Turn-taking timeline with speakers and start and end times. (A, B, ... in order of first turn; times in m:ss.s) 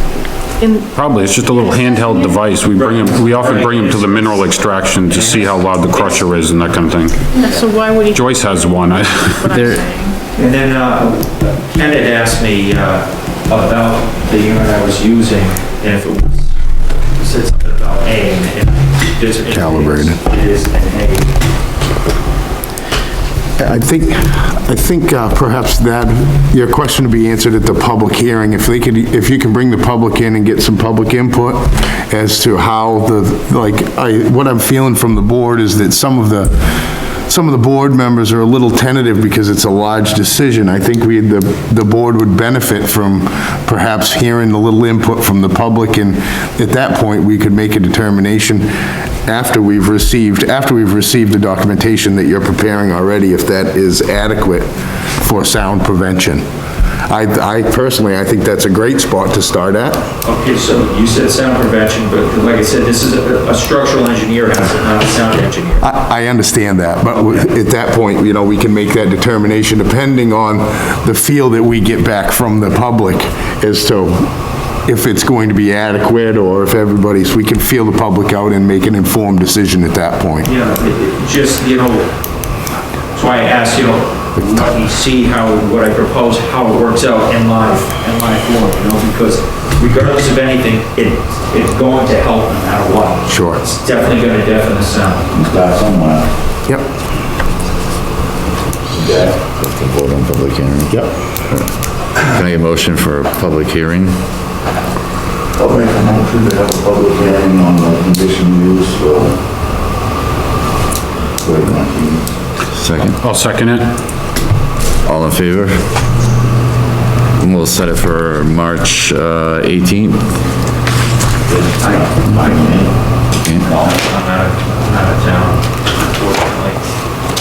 0:00.6-0:02.4 A
0:00.9-0:07.3 B
0:02.7-0:06.3 C
0:07.3-0:10.2 A
0:08.1-0:09.6 B
0:10.4-0:16.5 C
0:17.2-0:21.3 C
0:19.5-0:20.2 D
0:23.6-0:48.7 D
0:49.2-0:56.4 D
0:57.1-1:00.1 D
1:00.2-1:05.9 C
1:05.8-1:14.3 D
1:14.8-1:20.5 D
1:20.4-1:22.1 C
1:23.1-1:35.3 C
1:33.3-1:33.6 D
1:35.3-1:36.3 E
1:38.9-1:39.4 E
1:39.6-1:40.9 F
1:42.2-1:44.2 F
1:45.6-1:49.4 E
1:51.4-1:52.3 E
1:52.7-1:53.2 F
1:53.2-1:53.9 B
1:55.0-1:55.9 F
1:57.4-2:00.4 F
2:01.5-2:03.9 E
2:01.8-2:02.8 C
2:03.6-2:06.8 C